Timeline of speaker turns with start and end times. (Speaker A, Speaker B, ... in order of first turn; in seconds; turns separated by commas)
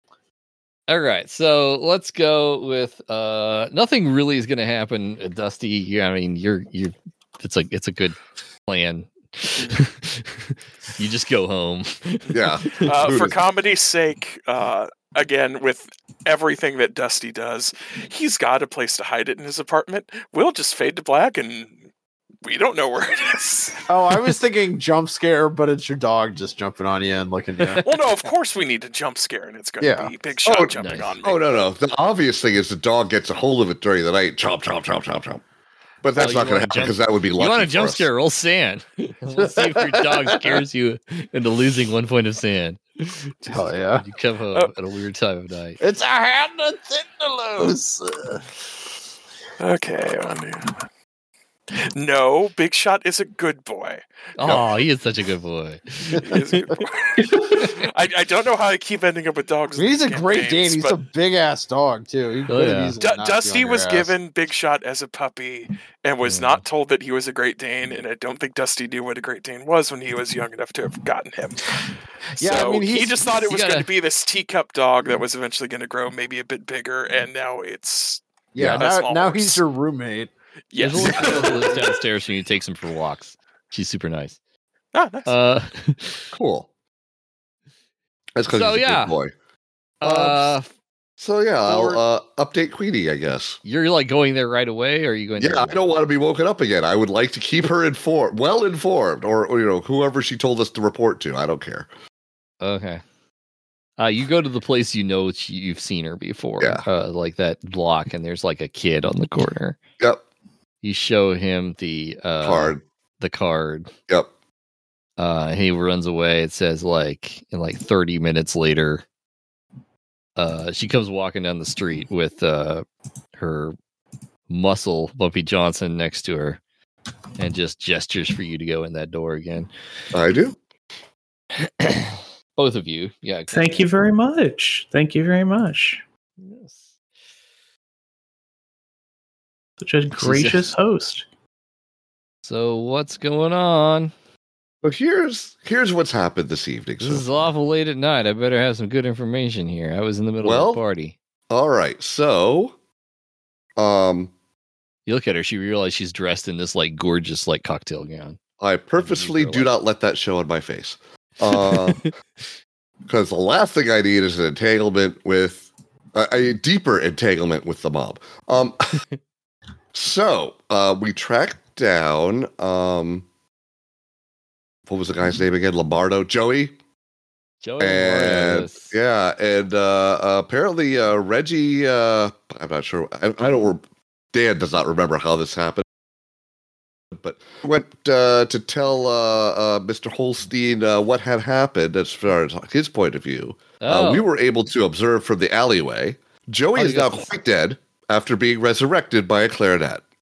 Speaker A: 0.9-13.2, Speaker B: 12.3-13.4, Speaker C: 12.8-21.8, Speaker C: 22.4-23.9, Speaker D: 23.9-27.8, Speaker C: 27.8-31.6, Speaker D: 29.8-30.1, Speaker B: 30.4-35.4, Speaker A: 30.8-31.1, Speaker B: 36.0-38.1, Speaker A: 36.1-45.8, Speaker D: 39.3-40.6, Speaker D: 43.5-44.0, Speaker D: 45.8-48.5, Speaker C: 49.6-50.8, Speaker C: 51.8-54.0, Speaker A: 54.4-56.4, Speaker C: 56.2-61.0, Speaker D: 59.8-64.1, Speaker A: 62.5-62.9, Speaker C: 63.0-71.8, Speaker A: 66.2-66.6, Speaker C: 72.4-78.2, Speaker D: 72.4-73.2, Speaker A: 73.4-73.9, Speaker D: 78.5-80.3, Speaker C: 78.8-79.6, Speaker C: 80.7-81.8, Speaker A: 80.8-84.4, Speaker D: 81.0-81.6, Speaker C: 84.9-85.3, Speaker A: 85.2-86.3, Speaker B: 86.3-86.7, Speaker B: 88.3-89.3, Speaker A: 88.5-89.1, Speaker A: 90.0-90.7, Speaker B: 90.0-90.5, Speaker B: 91.2-93.6, Speaker A: 93.6-95.8, Speaker B: 95.4-101.9, Speaker A: 102.6-103.0, Speaker A: 104.0-109.8, Speaker B: 106.6-106.8, Speaker A: 110.8-113.9, Speaker B: 112.4-112.8, Speaker A: 115.2-119.0, Speaker A: 120.4-122.8, Speaker A: 123.4-123.7, Speaker A: 124.5-126.6, Speaker A: 127.4-129.7, Speaker B: 130.1-130.6, Speaker A: 131.6-133.9, Speaker E: 133.5-136.0, Speaker A: 136.4-136.9, Speaker E: 139.8-141.2, Speaker A: 140.2-140.7, Speaker A: 142.4-144.1, Speaker B: 144.8-147.3, Speaker A: 147.0-151.1, Speaker B: 150.4-150.8, Speaker B: 151.5-152.7, Speaker B: 153.8-154.3, Speaker A: 155.1-158.4, Speaker B: 158.6-162.0, Speaker A: 159.0-159.7, Speaker A: 161.5-162.1, Speaker B: 163.1-169.0, Speaker B: 169.9-173.2, Speaker B: 174.9-176.7, Speaker A: 177.6-178.9, Speaker B: 177.8-183.8, Speaker B: 184.3-185.8, Speaker B: 187.1-200.0, Speaker A: 193.8-194.2, Speaker A: 196.7-197.3